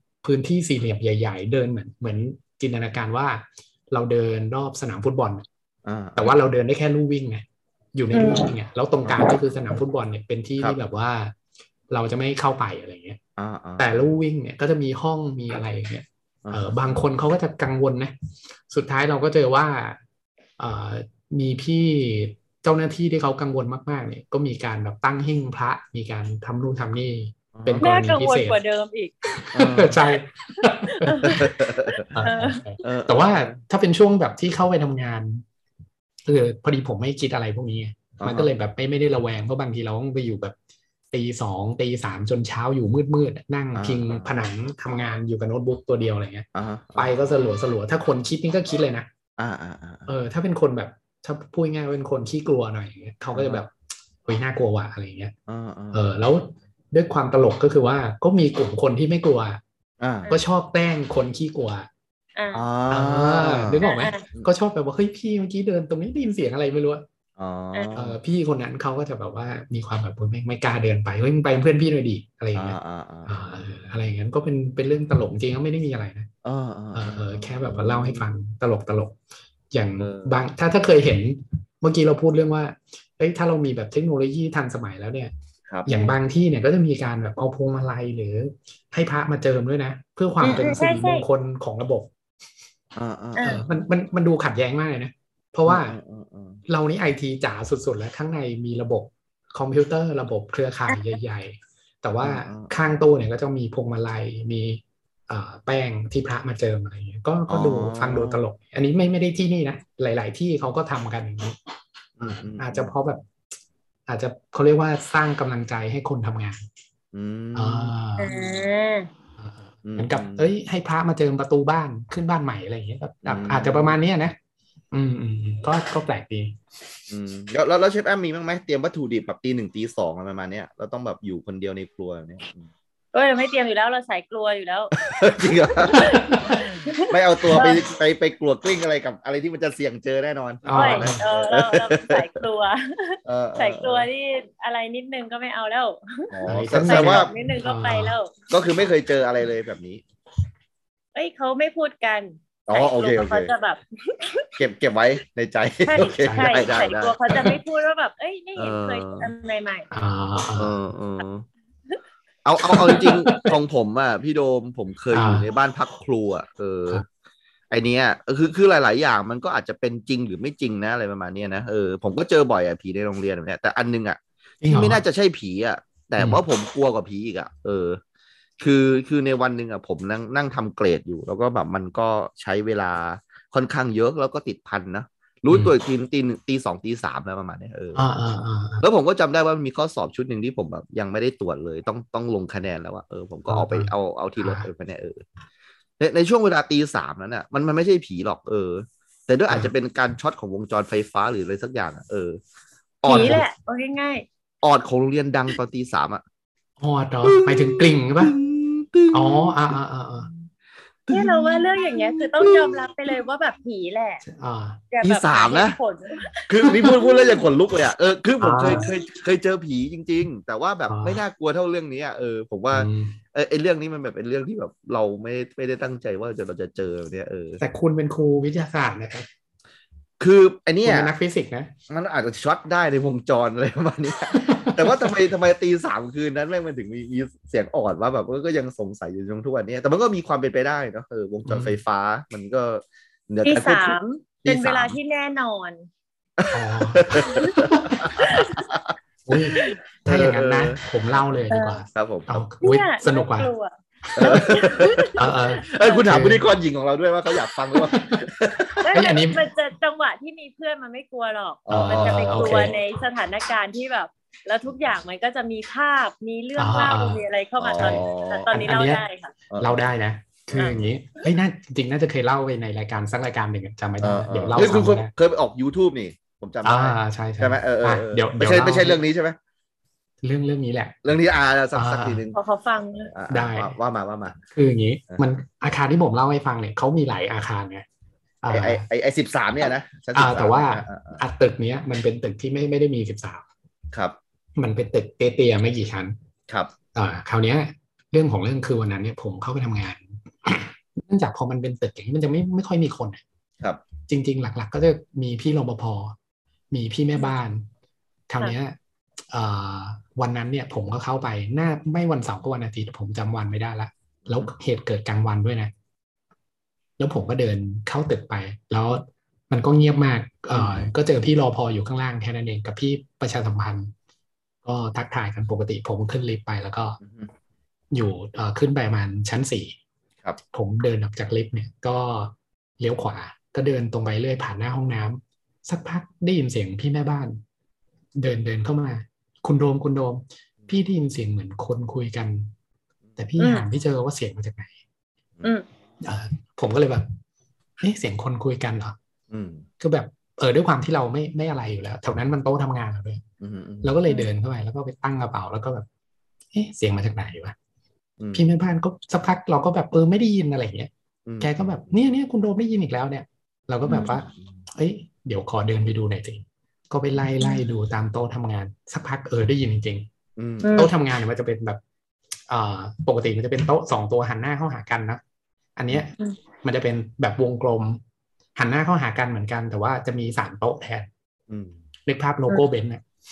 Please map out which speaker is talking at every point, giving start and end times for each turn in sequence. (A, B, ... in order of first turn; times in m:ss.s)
0:00.2-0:05.4 A
0:05.8-0:06.3 B
0:06.2-0:07.4 A
0:07.9-0:11.3 A
0:08.1-0:08.5 C
0:11.9-0:13.2 A
0:13.4-0:14.2 B
0:13.8-0:18.1 A
0:16.4-0:17.0 B
0:18.7-0:20.0 A
0:20.6-0:28.6 A
0:27.5-0:27.9 B
0:27.8-0:29.4 C
0:29.4-0:31.4 A
0:29.5-0:30.0 B
0:30.5-0:32.6 C
0:31.2-0:32.1 B
0:32.1-0:35.4 A
0:32.8-0:33.6 B
0:36.3-0:40.5 A
0:38.2-0:38.5 B
0:41.1-0:49.1 A
0:43.7-0:44.3 B
0:46.5-0:47.1 B
0:49.4-0:50.1 B
0:50.1-0:53.7 A
0:53.3-0:53.6 B
0:54.2-0:55.3 A
0:55.5-0:56.0 B
0:55.9-0:59.6 A
1:00.0-1:00.3 B
1:00.3-1:01.9 A
1:02.4-1:02.6 C
1:02.5-1:04.5 B
1:02.9-1:07.0 A
1:03.8-1:04.2 C
1:07.4-1:08.2 B
1:07.9-1:16.3 A
1:12.5-1:13.6 B
1:16.4-1:18.2 B
1:16.9-1:19.2 A
1:19.7-1:25.3 A
1:20.0-1:20.4 B
1:25.7-1:26.2 B
1:25.8-1:32.1 A
1:30.4-1:31.2 C
1:32.9-1:33.6 B
1:33.4-1:33.6 C
1:33.4-1:36.0 A
1:35.6-1:36.6 B
1:36.7-1:51.6 A
1:40.9-1:41.1 C
1:42.2-1:42.7 B
1:47.5-1:48.4 B
1:52.2-1:52.9 B
1:52.2-1:53.2 A
1:54.1-1:56.6 A
1:57.1-1:57.9 B
1:57.5-1:58.5 A
1:58.2-1:59.1 C
1:59.4-2:04.4 A
1:59.8-2:00.5 B
2:03.2-2:04.0 B
2:04.9-2:06.6 A
2:07.1-2:12.7 B
2:13.1-2:15.0 C
2:15.0-2:16.3 B
2:15.8-2:17.8 C
2:15.9-2:16.7 A
2:17.1-2:22.3 B
2:20.6-2:21.2 A
2:20.7-2:28.3 C
2:23.2-2:24.1 B
2:26.3-2:27.3 B
2:26.4-2:28.2 A
2:28.5-2:30.0 B
2:31.1-2:34.5 C
2:32.7-2:33.5 B
2:34.6-2:37.2 B
2:35.8-2:39.9 C
2:36.2-2:36.6 A
2:38.6-2:39.3 B
2:39.9-2:40.8 A
2:40.6-2:41.5 B
2:42.4-2:47.0 B
2:42.7-2:43.5 A
2:45.1-2:45.4 A
2:47.7-2:58.0 B
2:54.6-2:55.0 A
2:56.2-2:56.4 A
2:58.6-3:08.0 B
3:07.9-3:08.8 A
3:08.8-3:15.2 B
3:13.5-3:14.7 A
3:16.0-3:22.4 B
3:23.0-3:23.4 B
3:23.0-3:24.2 C
3:23.1-3:23.4 A
3:24.6-3:26.2 B
3:26.8-3:28.4 A
3:27.2-3:29.7 B
3:29.1-3:30.3 A
3:31.1-3:32.9 B
3:31.1-3:34.2 C
3:34.2-3:34.8 A
3:34.9-3:37.4 C
3:35.0-3:35.8 B
3:36.5-3:47.6 B
3:38.4-3:38.8 A
3:40.9-3:41.2 A
3:42.7-3:43.2 A
3:47.6-3:49.3 A
3:50.2-3:51.1 B
3:50.8-3:51.7 A
3:51.9-4:05.0 B
3:54.3-3:55.0 A
4:01.4-4:01.8 A
4:03.4-4:05.9 C
4:06.4-4:08.9 B
4:06.5-4:08.3 A
4:07.2-4:07.6 C
4:08.2-4:08.6 C
4:09.2-4:13.5 A
4:09.5-4:11.2 B
4:11.5-4:11.8 C
4:11.9-4:12.4 B
4:12.6-4:15.2 C
4:14.1-4:14.5 A
4:14.2-4:18.8 B
4:15.1-4:16.4 A
4:15.7-4:16.0 C
4:17.8-4:18.2 A
4:18.8-4:29.3 C
4:18.9-4:19.4 A
4:21.6-4:22.8 B
4:21.7-4:22.7 A
4:26.6-4:27.2 A
4:27.6-4:28.5 B
4:27.8-4:29.0 A
4:29.5-4:29.8 B
4:29.6-4:35.1 A
4:30.5-4:30.9 B
4:34.0-4:39.4 B
4:36.6-4:39.0 A
4:40.2-4:41.0 A
4:41.0-4:42.4 B
4:41.7-4:42.2 A
4:42.3-4:43.1 C
4:43.1-4:44.4 B
4:43.3-4:43.8 A
4:44.5-4:47.8 A
4:48.4-4:48.8 A
4:48.5-4:51.2 B
4:50.1-4:53.4 A
4:54.6-4:56.1 A
4:56.9-5:03.2 A
5:04.1-5:06.1 A
5:06.7-5:07.6 A
5:08.3-5:08.7 A
5:09.3-5:15.7 A
5:14.2-5:14.5 B
5:17.0-5:23.9 A
5:20.5-5:20.9 B
5:24.6-5:27.0 A
5:27.0-5:27.3 B
5:27.9-5:29.7 A
5:30.5-5:37.4 A
5:38.2-5:42.5 A
5:43.2-5:44.7 A
5:43.4-5:43.6 C
5:46.0-5:47.1 A
5:47.8-5:49.0 A
5:49.3-5:49.6 B
5:49.8-5:53.2 A
5:53.4-5:53.9 B
5:53.8-5:55.8 A
5:56.5-5:57.6 A
5:58.3-6:10.1 A
6:01.2-6:01.7 B
6:03.8-6:04.2 C
6:10.4-6:10.7 B
6:10.6-6:10.9 C
6:10.7-6:11.8 A
6:12.5-6:15.2 A
6:15.8-6:18.0 A
6:18.6-6:21.1 A
6:21.5-6:21.8 B
6:22.1-6:23.0 A